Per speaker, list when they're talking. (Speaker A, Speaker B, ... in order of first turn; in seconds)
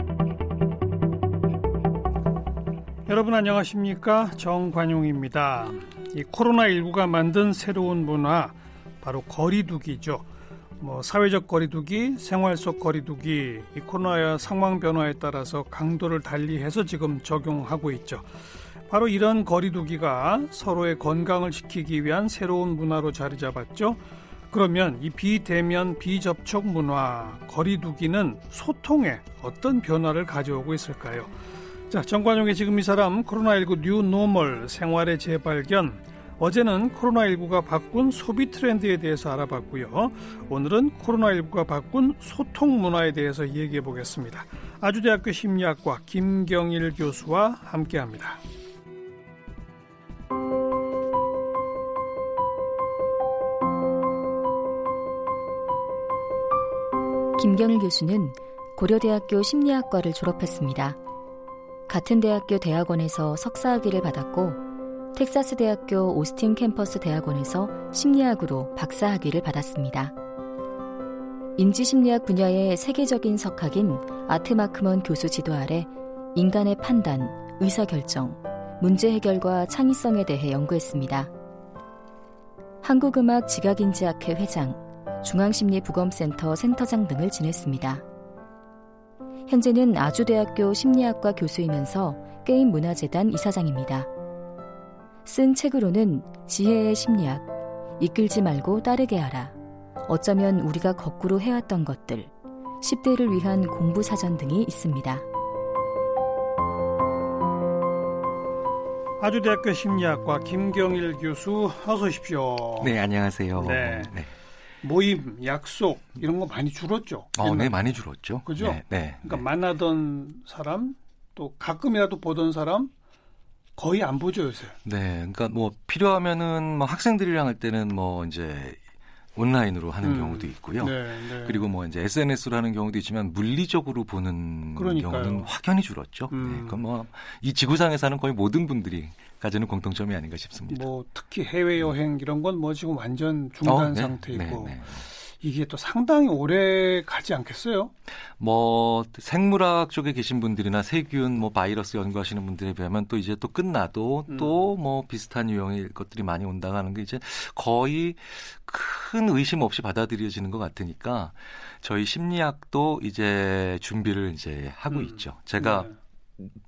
Speaker A: 3.1-10.2, 10.8-18.3, 18.9-31.3, 31.9-48.4, 109.2-112.9, 113.6-114.1, 114.8-117.8, 118.4-122.9, 123.8-124.8, 130.0-131.6, 134.8-135.5, 136.3-136.8, 140.7-147.9, 164.9-165.9
Speaker B: 57.4-61.0, 61.9-64.6, 65.1-70.1, 71.6-81.3, 82.8-88.0, 89.5-94.1, 95.2-97.5, 98.0-99.5, 100.1-105.2
Speaker C: 112.8-114.3, 117.3-119.4, 124.8-128.8, 129.3-140.8, 143.6-145.1, 148.4-166.5